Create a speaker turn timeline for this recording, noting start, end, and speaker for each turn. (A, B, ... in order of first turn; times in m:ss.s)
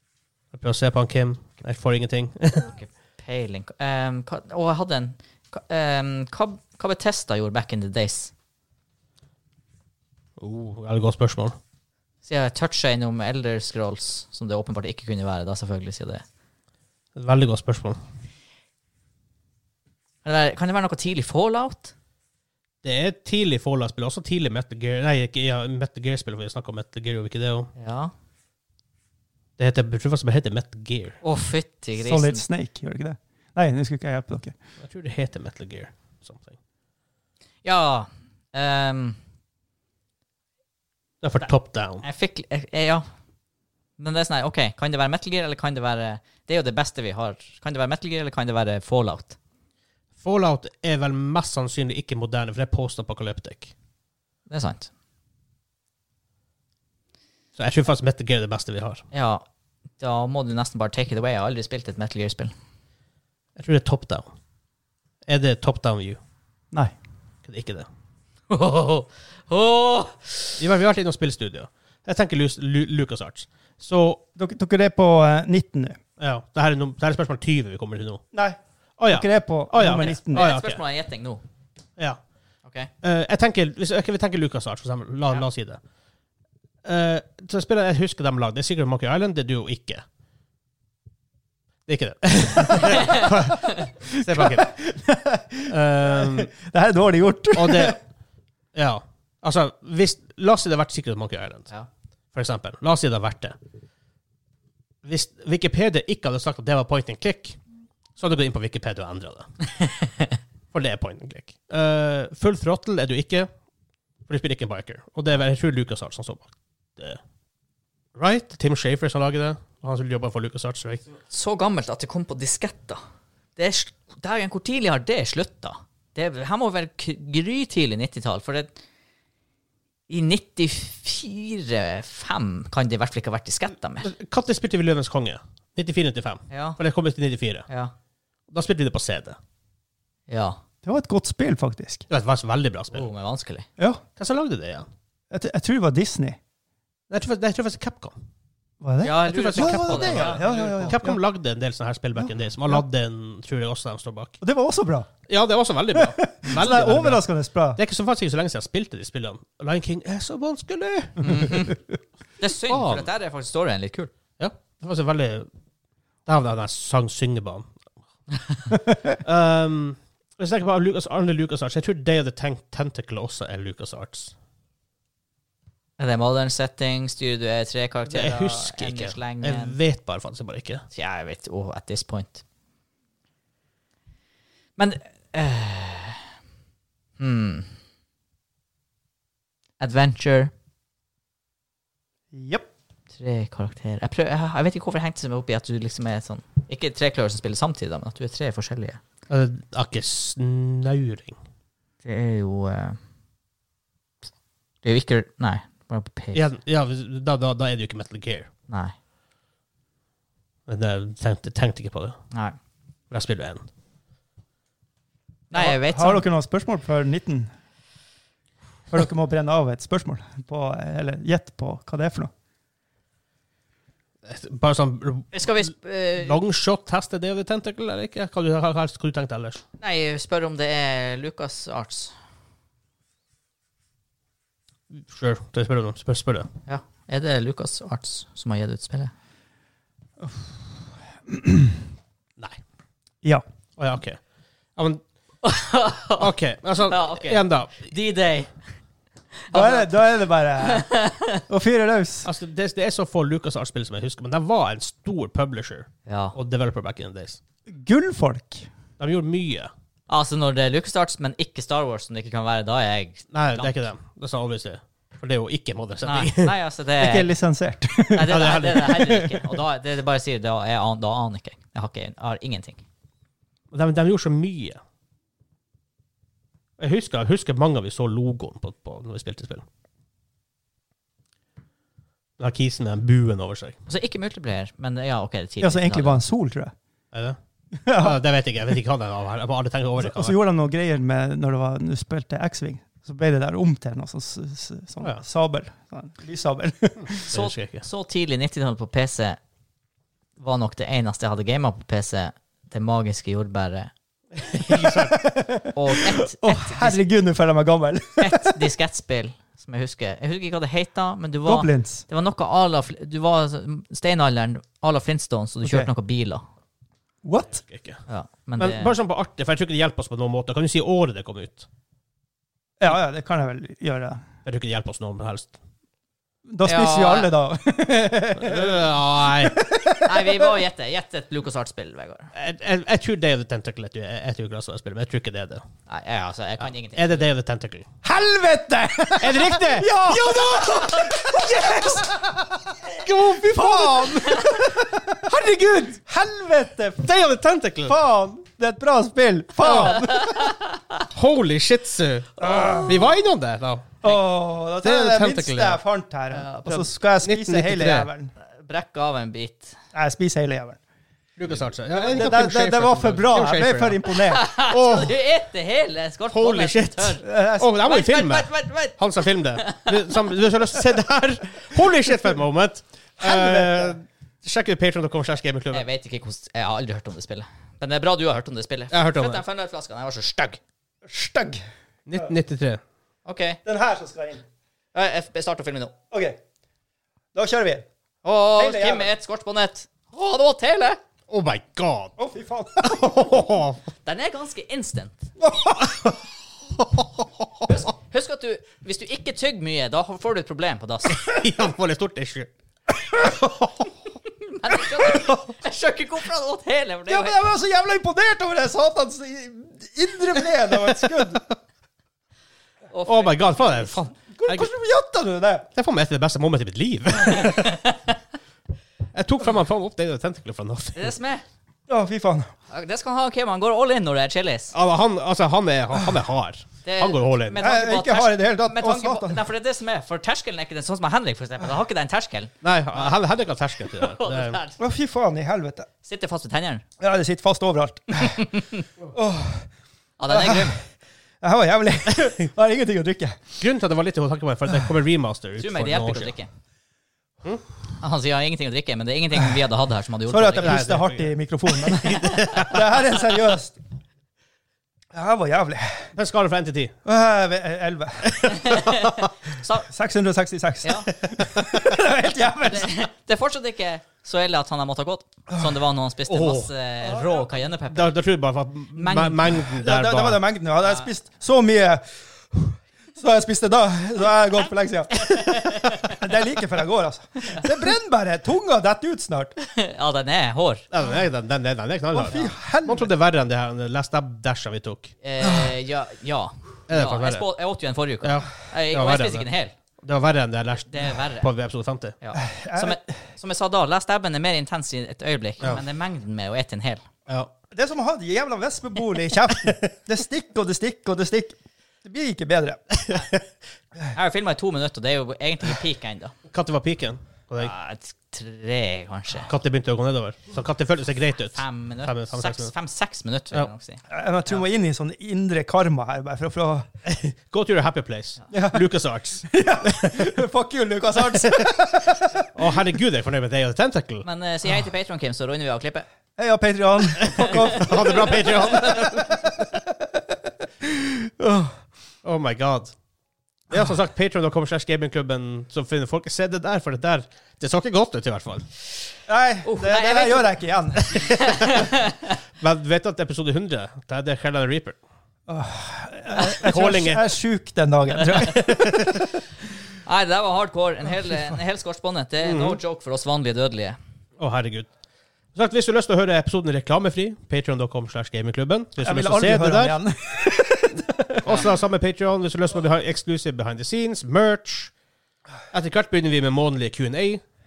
0:00.5-0:02.7 A
0:02.6-0:08.3 B
0:10.4-0:11.6 A
0:12.2-0:16.2 B
0:17.2-0:18.0 A
0:20.2-0:21.9 B
0:22.8-0:27.7 A
0:27.8-0:28.1 B
0:29.6-0:31.2 A
0:31.2-0:32.4 B
0:32.0-0:34.6 C
0:34.8-0:36.6 A
0:37.6-0:39.2 B
0:41.2-0:42.0 A
0:42.0-0:43.1 B
0:44.0-0:49.4 B
0:50.2-0:53.7 A
0:54.5-0:54.9 B
0:57.6-0:59.0 A
0:59.1-0:59.4 B
1:00.0-1:02.5 B
1:03.6-1:04.3 A
1:05.3-1:06.2 A
1:07.4-1:07.9 A
1:08.5-1:10.6 B
1:10.6-1:14.2 A
1:14.4-1:16.0 C
1:16.2-1:18.2 A
1:18.3-1:18.6 C
1:19.0-1:20.8 A
1:19.1-1:20.5 C
1:19.8-1:21.4 B
1:23.0-1:25.8 A
1:26.8-1:30.0 A
1:31.9-1:34.7 A
1:33.0-1:33.3 B
1:34.2-1:38.0 C
1:35.7-1:36.5 A
1:37.5-1:38.0 A
1:38.7-1:41.7 A
1:42.3-1:43.6 A
1:45.0-1:47.6 A
1:48.2-1:49.6 A
1:50.7-1:53.5 A
1:54.3-1:57.2 A
1:58.2-2:01.0 A
2:01.3-2:03.0 B
2:03.6-2:08.8 B
2:10.1-2:14.1 B
2:14.0-2:17.7 A
2:16.5-2:16.8 B
2:17.7-2:17.9 B
2:18.5-2:19.4 A
2:20.3-2:20.6 B
2:20.8-2:22.1 C
2:22.1-2:23.1 A
2:22.9-2:23.7 B
2:24.2-2:24.9 A
2:25.3-2:26.4 C
2:27.1-2:28.2 A
2:28.8-2:31.2 C
2:29.0-2:30.9 B
2:29.2-2:34.4 A
2:32.2-2:32.8 C
2:34.4-2:35.1 C
2:35.3-2:41.6 A
2:35.9-2:37.8 C
2:36.5-2:36.9 B
2:41.2-2:41.8 B
2:41.4-2:41.8 C
2:42.4-2:44.1 B
2:42.7-2:43.1 A
2:44.4-2:45.5 A
2:46.3-2:47.7 A
2:49.0-2:54.3 A
2:56.0-2:59.8 B
2:58.1-3:00.8 A
3:00.9-3:02.4 B
3:04.8-3:06.2 B
3:07.2-3:07.7 B
3:09.8-3:10.5 B
3:12.3-3:12.7 C
3:13.1-3:19.0 B
3:19.3-3:21.4 A
3:22.0-3:23.0 B
3:24.8-3:26.4 B
3:26.3-3:28.5 A
3:28.7-3:28.9 B
3:30.7-3:32.2 A
3:33.1-3:33.6 A
3:35.5-3:36.3 B
3:35.5-3:37.5 C
3:38.9-3:42.3 C
3:44.2-3:49.6 A
3:45.3-3:46.4 B
3:49.8-3:52.1 B
3:54.9-3:56.5 A
3:56.7-3:59.1 B
4:01.3-4:01.8 C
4:03.8-4:04.2 A
4:04.8-4:05.0 A
4:05.4-4:06.3 B
4:06.2-4:07.9 A
4:06.9-4:08.5 B
4:09.5-4:10.1 B
4:09.5-4:10.9 C
4:10.6-4:11.4 B
4:11.5-4:12.3 C
4:12.2-4:17.4 A
4:16.1-4:16.4 B
4:17.7-4:18.7 C
4:19.0-4:19.7 A
4:20.1-4:23.8 B
4:23.3-4:26.5 A
4:26.0-4:27.3 B
4:27.0-4:29.5 C
4:28.1-4:32.8 B
4:28.3-4:28.8 A
4:33.7-4:34.8 A
4:36.8-4:39.6 A
4:42.4-4:43.8 A
4:43.9-4:46.2 B
4:45.6-4:46.7 C
4:47.1-4:47.4 A
4:47.8-4:48.2 C
4:47.9-4:50.3 A
4:50.0-4:57.3 C
4:57.1-4:57.9 A
4:57.3-4:59.4 B
5:00.4-5:03.9 B
5:04.4-5:05.1 A
5:04.7-5:08.6 C
5:05.7-5:07.0 B
5:08.2-5:16.4 B
5:11.5-5:12.1 C
5:15.6-5:15.9 C
5:17.2-5:17.6 C
5:17.5-5:18.0 A
5:18.1-5:19.0 B
5:18.6-5:21.7 A
5:22.8-5:24.2 C
5:24.4-5:25.6 A
5:26.5-5:30.6 C
5:26.6-5:27.3 B
5:28.4-5:29.6 A
5:30.0-5:32.3 B
5:32.4-5:35.6 A
5:35.9-5:37.3 B
5:37.0-5:37.9 A
5:38.0-5:47.1 C
5:39.2-5:40.4 A
5:40.5-5:41.3 B
5:42.9-5:44.4 A
5:47.0-5:48.0 A
5:47.9-5:50.5 C
5:49.6-5:50.0 A
5:49.6-5:51.0 B
5:51.0-5:54.1 A
5:52.4-5:53.1 C
5:52.5-5:53.1 B
5:54.0-5:58.3 C
5:54.8-5:55.8 A
5:56.3-5:56.9 B
5:57.2-5:58.1 A
5:58.4-5:59.8 B
5:59.9-6:00.8 C
6:01.4-6:04.0 A
6:02.0-6:04.4 C
6:04.1-6:07.2 B
6:04.6-6:05.2 A
6:06.3-6:15.9 A
6:07.2-6:07.8 C
6:07.8-6:10.0 B
6:13.2-6:14.0 C
6:15.7-6:20.6 B
6:18.9-6:19.4 A
6:21.0-6:22.3 C
6:22.1-6:22.8 A
6:23.3-6:23.6 B
6:23.6-6:24.4 C
6:24.9-6:25.9 B
6:26.1-6:26.4 C
6:27.3-6:27.9 C
6:28.2-6:31.0 B
6:28.6-6:29.1 C
6:31.3-6:32.2 A
6:32.2-6:33.3 C
6:32.8-6:33.8 A
6:34.0-6:35.3 B
6:35.4-6:36.2 C
6:37.0-6:37.7 A
6:37.7-6:41.4 B
6:41.2-6:42.5 A
6:43.1-6:43.9 C
6:44.4-6:47.4 B
6:45.0-6:45.4 C
6:47.1-6:51.4 C
6:52.9-6:54.1 B
6:53.1-6:54.7 A
6:54.3-6:55.7 C
6:55.8-6:57.8 A
6:57.2-6:58.0 B
6:59.1-7:01.1 A
7:01.0-7:01.4 B
7:01.9-7:02.5 C
7:02.7-7:04.8 B
7:04.7-7:07.6 A
7:06.8-7:13.1 B
7:07.6-7:09.4 C
7:12.6-7:14.6 A
7:14.0-7:14.8 B
7:14.8-7:15.9 C
7:16.0-7:16.8 B
7:17.0-7:18.5 C
7:18.2-7:18.9 B
7:19.1-7:19.7 C
7:20.2-7:20.8 B
7:20.3-7:20.8 C
7:21.4-7:23.7 C
7:23.6-7:26.3 A
7:25.6-7:26.5 B
7:28.0-7:30.9 B
7:30.3-7:33.8 C
7:30.6-7:33.1 A
7:35.1-7:36.1 C
7:36.2-7:37.0 A
7:37.0-7:38.4 C
7:38.2-7:39.3 A
7:38.4-7:39.9 B
7:39.9-7:42.9 C
7:40.8-7:41.1 B
7:42.6-7:48.2 B
7:46.3-7:46.7 A
7:47.9-7:50.4 A
7:49.0-7:49.6 B
7:49.8-7:59.5 C
7:55.4-7:56.1 B
7:59.6-8:00.9 B
8:00.9-8:05.2 A
8:02.1-8:03.1 C
8:05.2-8:09.7 B
8:06.9-8:07.5 A
8:08.2-8:09.5 A
8:10.0-8:12.2 A
8:10.9-8:11.5 B
8:12.2-8:17.0 B
8:12.4-8:13.0 C
8:17.7-8:22.8 C
8:23.1-8:23.4 A
8:24.1-8:26.4 B
8:26.5-8:27.7 A
8:27.6-8:29.5 B
8:29.5-8:32.7 A
8:31.5-8:34.0 B
8:34.1-8:36.9 C
8:37.1-8:40.3 A
8:38.5-8:38.9 C
8:39.4-8:42.5 C
8:42.5-8:44.2 A
8:44.2-8:46.1 B
8:46.4-8:51.8 C
8:47.2-8:49.1 A
8:47.4-8:49.3 B
8:52.2-8:53.0 A
8:53.7-8:58.7 A
8:59.3-9:01.2 C
8:59.6-9:02.3 B
9:01.1-9:01.8 A
9:02.6-9:05.0 A
9:05.5-9:09.1 C
9:06.6-9:07.3 A
9:08.1-9:09.0 B
9:10.0-9:14.0 B
9:12.4-9:12.8 A
9:14.4-9:14.9 A
9:15.6-9:20.0 A
9:19.0-9:21.6 C
9:21.4-9:24.9 A
9:25.7-9:27.4 A